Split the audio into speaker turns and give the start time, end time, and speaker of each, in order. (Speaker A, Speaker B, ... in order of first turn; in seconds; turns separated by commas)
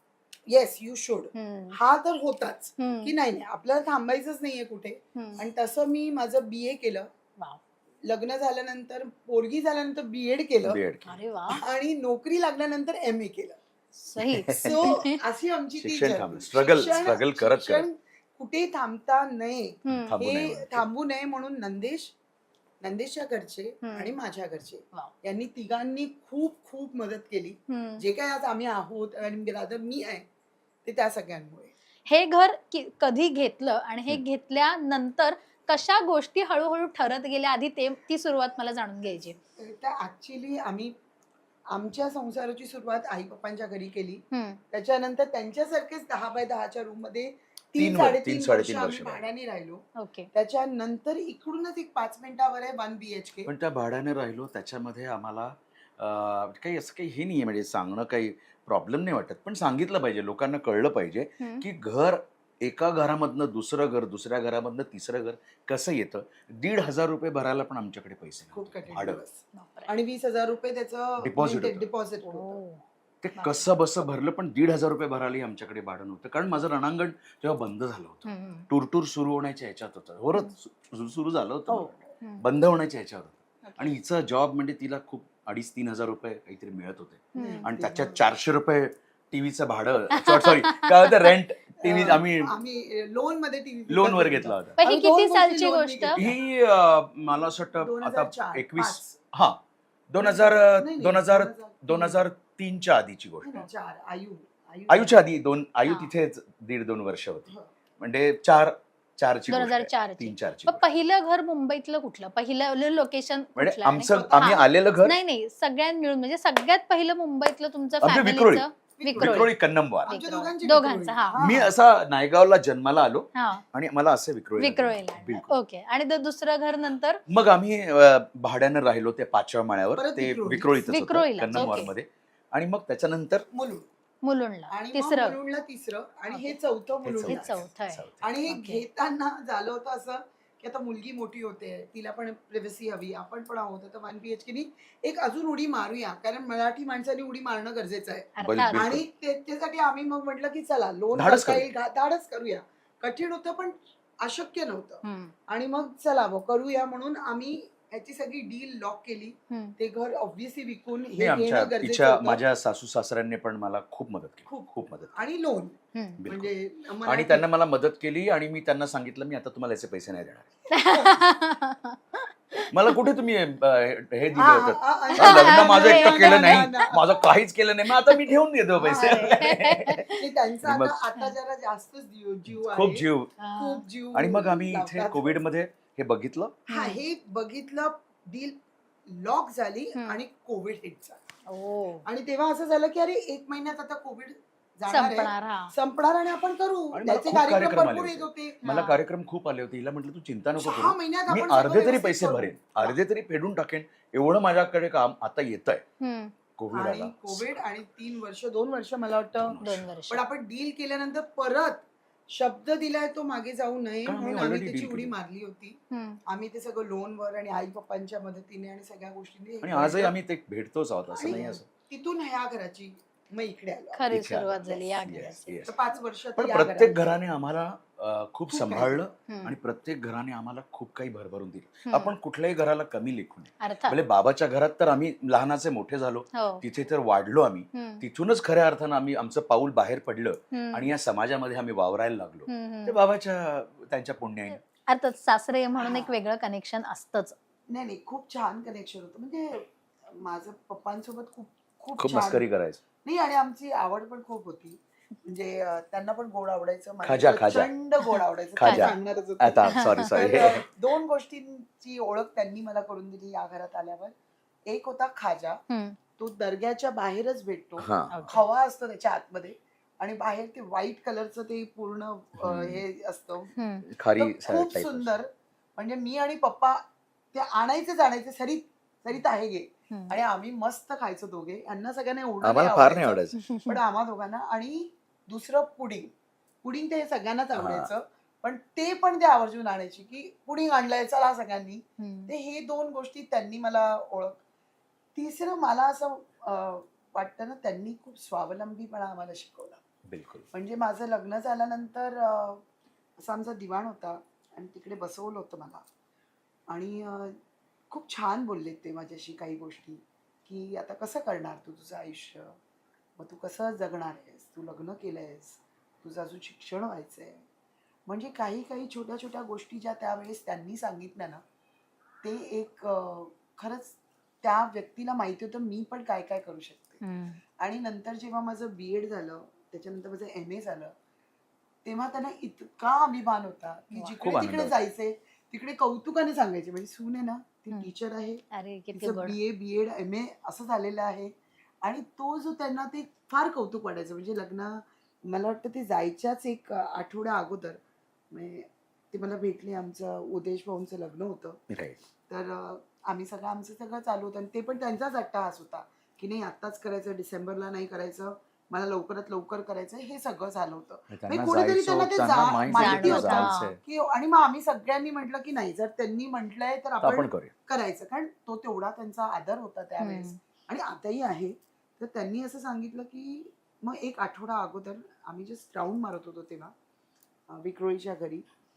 Speaker A: 0.5-7.1, Speaker B: 1.4-1.8, Speaker B: 2.8-3.1, Speaker B: 5.2-5.4, Speaker A: 8.1-10.8, Speaker C: 10.7-11.2, Speaker B: 11.1-11.6, Speaker A: 11.5-13.6, Speaker B: 14.0-15.2, Speaker C: 14.2-14.9, Speaker A: 14.6-22.1, Speaker C: 15.8-17.9, Speaker B: 19.9-20.2, Speaker C: 19.9-20.9, Speaker A: 22.8-30.3, Speaker B: 23.8-24.1, Speaker B: 27.7-28.0, Speaker A: 30.9-31.7, Speaker B: 32.1-39.4, Speaker A: 39.6-41.0, Speaker A: 41.7-53.5, Speaker B: 44.3-44.6, Speaker C: 47.8-49.3, Speaker B: 50.0-50.3, Speaker C: 53.5-69.2, Speaker B: 61.4-61.7, Speaker A: 68.5-72.6, Speaker B: 69.5-69.9, Speaker C: 71.2-71.9, Speaker B: 72.3-72.8, Speaker C: 73.2-92.5, Speaker B: 73.3-73.7, Speaker B: 78.2-78.7, Speaker A: 81.7-82.2, Speaker B: 82.2-82.5, Speaker B: 87.3-87.7, Speaker A: 87.4-88.3, Speaker B: 90.1-91.3, Speaker A: 91.8-96.4, Speaker C: 93.9-94.8, Speaker B: 94.8-96.2, Speaker C: 96.2-103.6, Speaker A: 97.8-99.2, Speaker A: 100.2-102.3, Speaker A: 103.4-105.3, Speaker C: 104.9-107.5, Speaker B: 105.8-106.1, Speaker C: 108.0-111.0, Speaker B: 109.5-119.5, Speaker C: 113.6-115.2, Speaker A: 114.0-114.7, Speaker C: 118.0-120.1, Speaker A: 119.0-119.5, Speaker A: 120.0-121.7, Speaker B: 120.1-121.4, Speaker C: 121.4-125.5, Speaker B: 123.3-123.6, Speaker B: 124.6-127.2, Speaker C: 127.3-133.4, Speaker A: 130.0-130.7, Speaker B: 130.8-131.9, Speaker A: 131.5-131.9, Speaker A: 133.5-133.9, Speaker B: 134.2-135.4, Speaker A: 134.7-137.6, Speaker B: 136.3-136.6, Speaker C: 137.0-138.2, Speaker B: 137.3-138.8, Speaker A: 138.2-162.4, Speaker B: 148.4-148.8, Speaker C: 148.4-149.1, Speaker C: 151.1-151.7, Speaker B: 155.0-155.3, Speaker C: 161.2-165.2, Speaker A: 164.5-167.5, Speaker B: 165.9-166.2, Speaker C: 166.2-166.5, Speaker C: 167.1-170.5, Speaker B: 170.7-172.9, Speaker A: 170.8-171.1, Speaker C: 172.7-180.0, Speaker A: 174.3-177.3, Speaker B: 175.2-176.8, Speaker B: 178.1-180.2, Speaker A: 178.8-179.4, Speaker A: 180.2-185.5, Speaker C: 180.6-180.9, Speaker C: 182.5-183.3, Speaker B: 183.4-183.8, Speaker C: 184.1-186.6, Speaker A: 186.7-188.6, Speaker B: 186.7-187.0, Speaker A: 189.1-191.2, Speaker B: 191.5-192.0, Speaker A: 192.1-199.0, Speaker B: 194.9-195.7, Speaker C: 196.9-205.8, Speaker A: 200.6-203.0, Speaker B: 206.0-206.3, Speaker C: 206.6-207.7, Speaker A: 206.7-209.6, Speaker C: 209.4-209.9, Speaker B: 209.6-210.2, Speaker A: 210.1-220.2, Speaker C: 214.1-215.2, Speaker B: 215.9-216.2, Speaker C: 219.6-221.7, Speaker A: 221.1-227.2, Speaker B: 221.3-221.6, Speaker B: 223.9-225.7, Speaker C: 224.1-225.7, Speaker C: 226.4-244.6, Speaker A: 228.5-229.1, Speaker B: 229.3-229.6, Speaker B: 231.9-232.2, Speaker B: 233.6-234.0, Speaker B: 236.3-236.6, Speaker B: 237.7-238.0, Speaker B: 240.5-240.9, Speaker B: 242.5-243.0, Speaker B: 244.5-247.4, Speaker A: 245.8-246.2, Speaker A: 247.7-252.4, Speaker C: 252.0-252.8, Speaker A: 253.0-264.1, Speaker C: 257.0-257.7, Speaker C: 258.6-260.6, Speaker B: 258.6-259.0, Speaker B: 259.7-260.3, Speaker A: 264.7-265.6, Speaker B: 265.7-266.0, Speaker A: 266.2-273.5, Speaker C: 267.8-268.4, Speaker B: 268.1-268.4, Speaker C: 272.4-272.8, Speaker B: 273.6-273.9, Speaker C: 273.9-275.2, Speaker A: 274.2-294.4, Speaker B: 279.9-280.2, Speaker C: 282.4-283.4, Speaker B: 283.4-283.8, Speaker C: 287.5-287.9, Speaker B: 292.0-292.3, Speaker A: 295.1-299.8, Speaker C: 300.1-300.5, Speaker A: 300.5-302.6, Speaker A: 303.2-305.9, Speaker A: 306.7-307.4, Speaker A: 307.9-312.6, Speaker A: 313.2-317.4, Speaker A: 318.1-321.4, Speaker A: 322.2-327.0, Speaker B: 327.0-327.4, Speaker A: 327.6-330.9, Speaker A: 331.9-338.4, Speaker C: 334.2-334.8, Speaker B: 338.5-339.4, Speaker A: 338.9-341.3, Speaker A: 341.8-347.8, Speaker A: 348.3-351.6, Speaker C: 351.7-352.0, Speaker A: 352.3-376.7, Speaker C: 361.1-363.8, Speaker B: 362.7-363.8, Speaker C: 367.0-367.5, Speaker B: 370.0-370.4, Speaker A: 377.5-378.4